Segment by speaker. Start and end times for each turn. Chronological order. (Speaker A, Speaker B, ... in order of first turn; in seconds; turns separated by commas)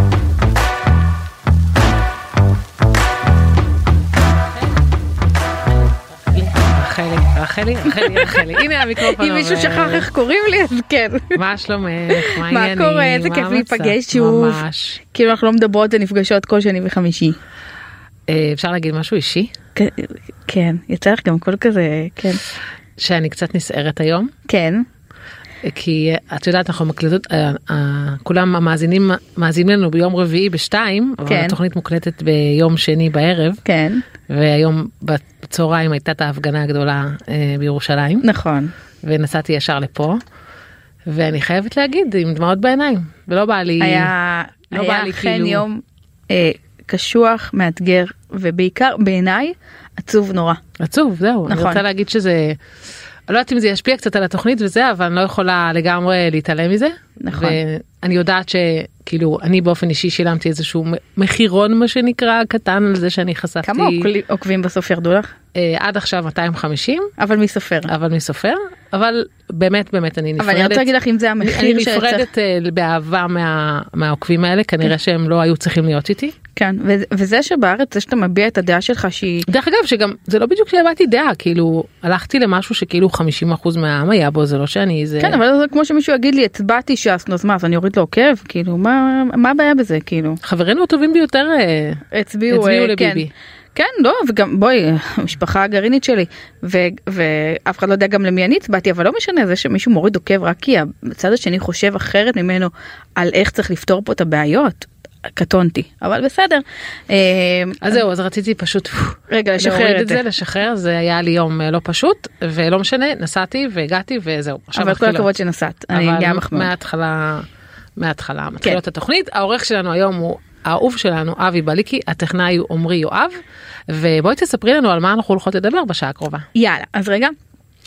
Speaker A: 6.1-10.1, Speaker B: 7.9-8.4, Speaker B: 9.0-11.4, Speaker A: 11.3-15.0, Speaker B: 12.1-17.4, Speaker A: 18.3-19.5, Speaker B: 19.8-22.4, Speaker A: 23.0-24.3, Speaker B: 24.5-24.8, Speaker A: 25.6-33.6, Speaker B: 31.2-31.5, Speaker B: 33.6-34.0, Speaker A: 34.3-38.2, Speaker B: 38.2-38.7, Speaker A: 39.0-40.2, Speaker A: 41.1-44.1, Speaker B: 43.8-50.6, Speaker A: 44.7-45.6, Speaker A: 50.8-52.6, Speaker B: 51.5-51.8, Speaker A: 53.3-64.1, Speaker B: 57.2-57.6, Speaker B: 63.6-65.3, Speaker A: 65.5-67.1, Speaker B: 67.2-67.9, Speaker A: 67.9-70.9, Speaker B: 70.4-72.3, Speaker A: 71.4-76.3, Speaker B: 76.5-79.5, Speaker A: 79.5-85.4, Speaker B: 85.2-90.4, Speaker A: 90.4-93.3, Speaker B: 92.1-108.0, Speaker A: 107.8-115.3, Speaker B: 109.3-110.2, Speaker B: 114.8-116.7, Speaker A: 115.9-126.5, Speaker B: 126.5-127.3